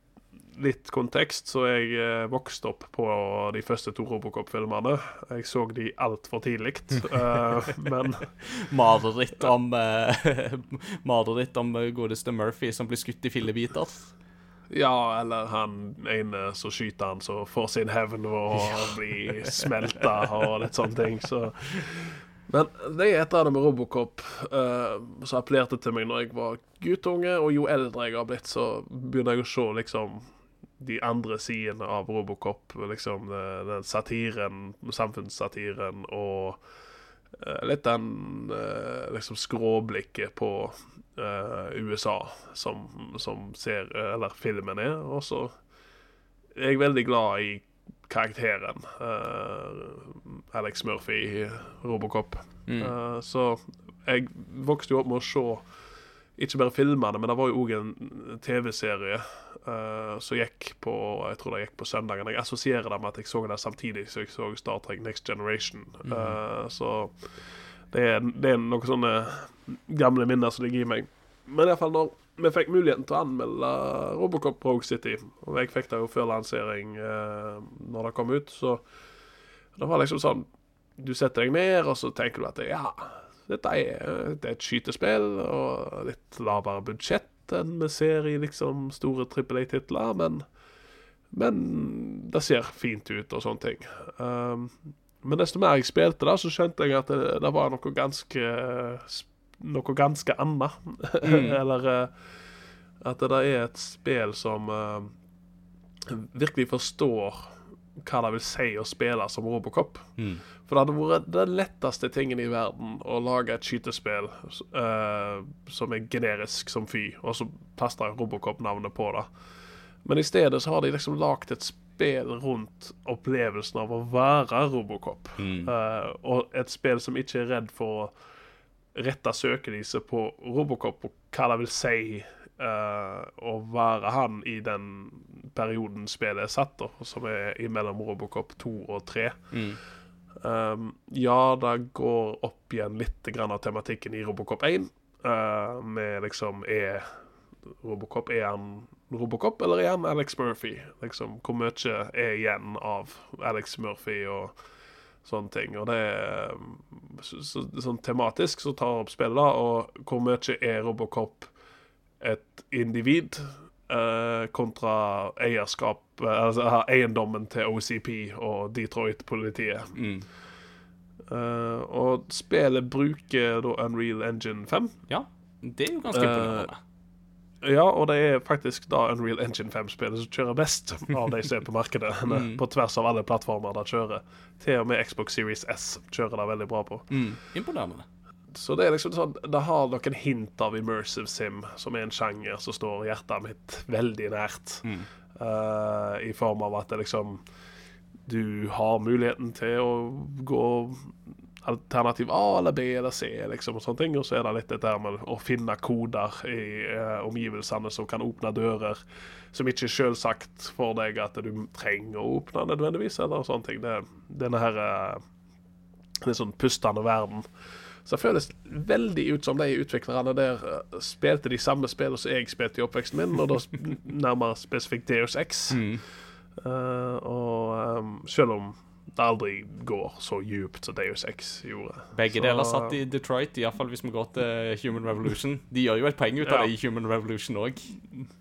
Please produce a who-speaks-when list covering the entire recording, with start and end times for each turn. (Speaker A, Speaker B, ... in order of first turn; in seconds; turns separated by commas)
Speaker A: 0.5-8.3, Speaker B: 8.4-14.1, Speaker A: 14.7-36.6, Speaker A: 37.4-45.5, Speaker A: 46.5-55.6, Speaker B: 52.7-52.9, Speaker A: 56.4-78.8, Speaker B: 66.0-66.4, Speaker A: 79.8-90.4, Speaker A: 91.3-102.1, Speaker B: 101.2-101.6, Speaker A: 103.0-105.1, Speaker A: 106.0-110.1, Speaker B: 110.2-110.4, Speaker A: 110.6-119.3, Speaker A: 120.0-128.1, Speaker B: 125.4-125.7, Speaker A: 128.9-139.5, Speaker B: 139.5-139.8, Speaker A: 140.4-154.5, Speaker A: 155.2-161.5, Speaker A: 162.2-169.9, Speaker B: 169.9-170.2, Speaker A: 171.3-174.9, Speaker B: 175.1-176.8, Speaker A: 176.1-176.7, Speaker A: 177.6-187.1, Speaker B: 182.3-182.6, Speaker B: 187.1-188.0, Speaker A: 188.5-197.4, Speaker A: 198.2-209.0, Speaker A: 209.5-215.2, Speaker A: 216.2-217.5, Speaker A: 218.0-225.8, Speaker B: 225.7-226.0, Speaker A: 226.6-233.0, Speaker B: 232.1-238.0, Speaker A: 236.4-236.7